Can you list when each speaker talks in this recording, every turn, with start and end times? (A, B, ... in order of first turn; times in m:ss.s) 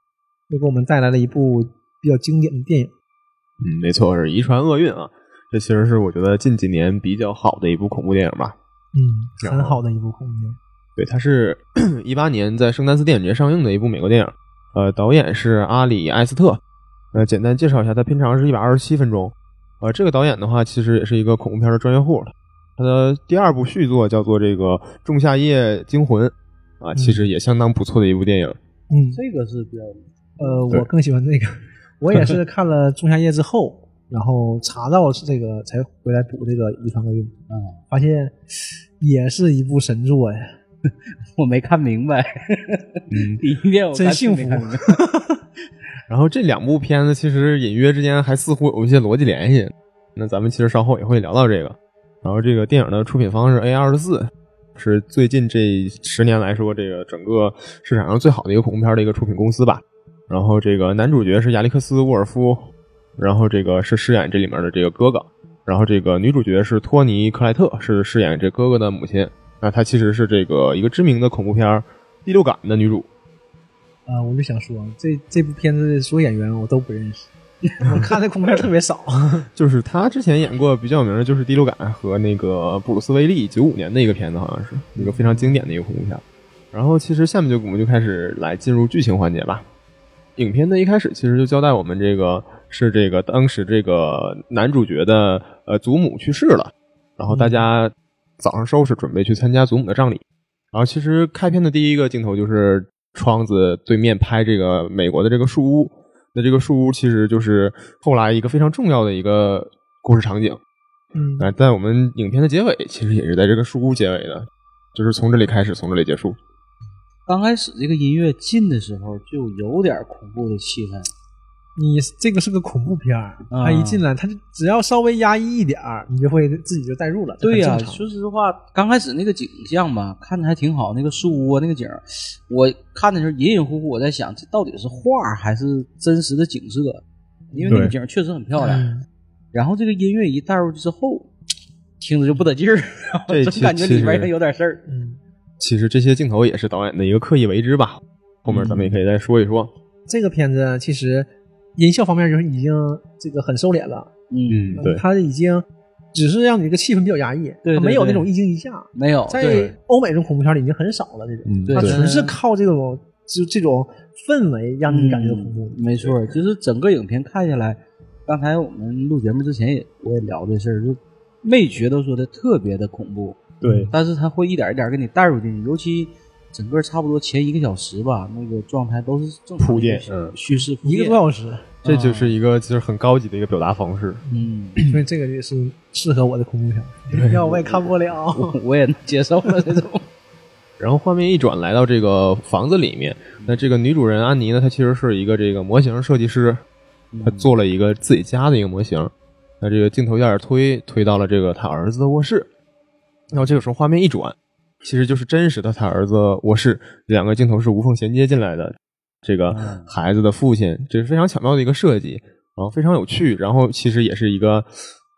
0:00.5-0:02.9 A
0:03.6-0:08.6 B
0:08.9-0:10.6 A
0:09.4-0:09.8 B
0:11.0-0:16.6 B
0:17.1-0:28.6 B
0:27.0-0:27.2 A
0:28.9-0:29.2 A
0:29.1-0:30.1 C
0:30.4-0:37.4 A
0:37.5-0:37.8 C
0:37.9-0:38.4 A
0:39.0-0:40.6 A
0:40.9-0:45.0 C
0:43.1-0:43.4 B
0:43.9-0:45.4 A
0:46.1-1:13.1 B
1:14.1-1:19.5 A
1:19.6-1:29.7 B
1:25.0-1:25.6 A
1:30.4-1:50.6 B
1:37.3-1:37.6 A
1:51.1-1:51.5 A
1:51.4-1:56.4 B
1:57.3-2:01.1 C
2:01.8-2:08.0 A
2:03.5-2:04.0 C
2:07.4-2:18.9 C
2:17.5-2:17.9 A
2:17.7-2:17.9 B
2:18.6-2:19.1 A
2:19.5-2:21.3 C
2:22.0-2:24.8 C
2:23.3-2:24.3 B
2:24.9-2:25.2 A
2:25.6-2:29.7 B
2:28.5-2:29.0 C
2:30.1-2:34.1 A
2:34.3-2:34.9 C
2:34.5-2:35.0 B
2:34.8-2:45.8 A
2:37.6-2:38.3 C
2:38.9-2:39.7 C
2:39.4-2:39.8 B
2:41.4-2:42.0 B
2:41.7-2:42.4 C
2:44.9-3:01.2 C
2:53.6-2:53.9 B
2:53.6-2:53.9 A
2:59.6-3:00.4 B
3:00.8-3:01.7 A
3:01.8-3:02.4 C
3:01.8-3:04.2 B
3:04.3-3:08.6 A
3:04.3-3:04.8 C
3:07.1-3:07.4 B
3:07.3-3:10.1 C
3:10.8-3:16.6 B
3:17.1-3:17.5 C
3:17.2-3:22.5 B
3:23.3-3:34.8 B
3:29.5-3:29.9 C